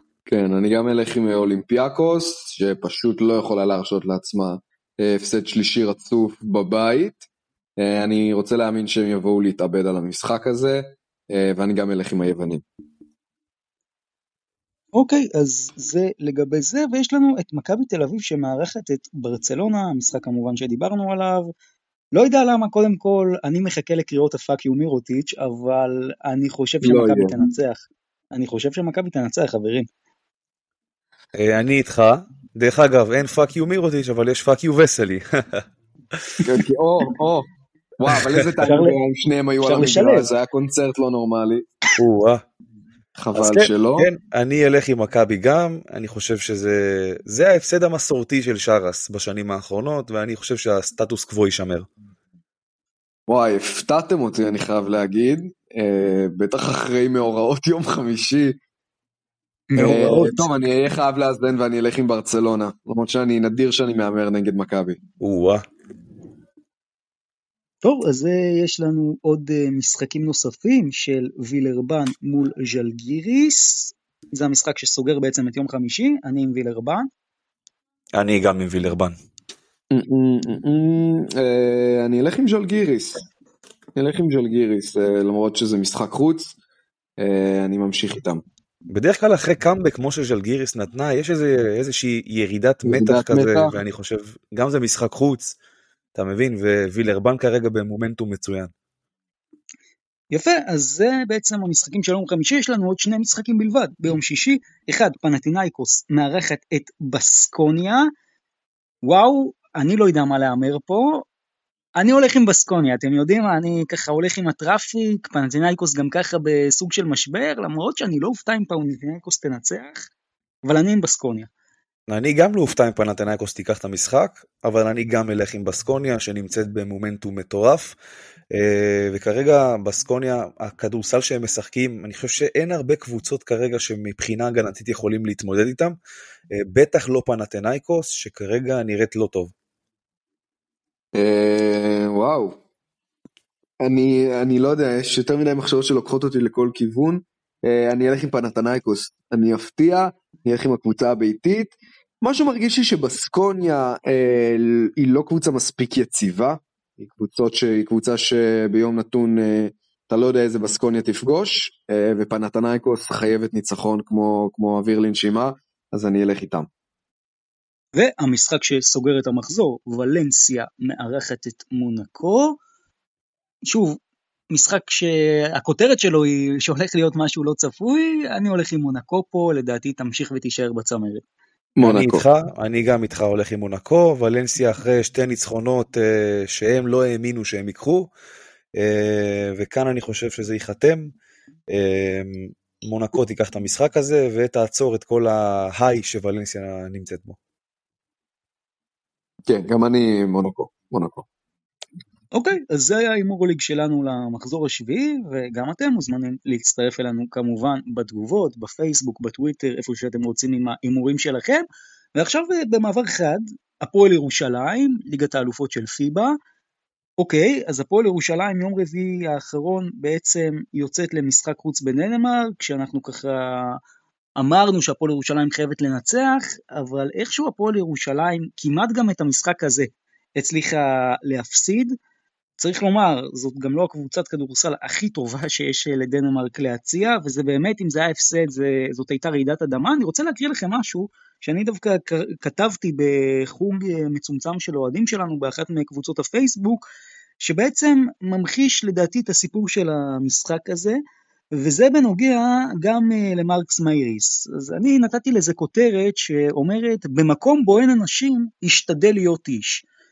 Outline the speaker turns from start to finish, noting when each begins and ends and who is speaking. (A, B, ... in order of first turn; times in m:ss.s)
0:00.2-0:07.2 A
0:07.8-0:12.6 A
0:14.9-0:21.5 B
0:22.1-0:29.9 B
0:26.8-0:27.4 A
0:31.3-0:35.6 C
0:36.4-0:37.4 A
0:38.0-0:41.6 A
0:38.1-0:38.4 C
0:38.6-0:39.0 B
0:39.6-0:40.3 B
0:42.0-0:42.4 C
0:43.2-0:44.1 A
0:43.3-0:51.9 C
0:53.3-0:58.6 A
0:59.7-1:00.5 B
0:59.8-1:05.0 A
1:05.2-1:05.6 C
1:07.8-1:17.1 B
1:18.1-1:19.1 C
1:19.9-1:23.2 A
1:24.0-1:26.5 A
1:27.2-1:28.4 A
1:28.9-1:35.6 C
1:32.8-1:33.7 A
1:36.1-1:38.7 C
1:40.3-1:48.1 B
1:49.0-1:51.2 B
1:52.0-2:00.1 B
2:00.6-2:01.5 B
2:02.1-2:07.9 C
2:08.5-2:16.0 C
2:16.5-2:19.5 C
2:21.1-2:22.6 A
2:23.8-2:46.7 A
2:47.9-2:52.6 B
2:53.7-2:54.0 B
2:54.5-3:01.2 B
3:01.8-3:02.2 A
3:01.8-3:08.1 C
3:08.8-3:11.1 C
3:11.7-3:17.4 C
3:19.5-3:21.2 A
3:22.3-3:36.4 B
3:37.2-3:43.8 B
3:44.4-3:51.9 B
3:52.6-4:06.8 B
4:07.4-4:11.0 B
4:11.5-4:19.8 B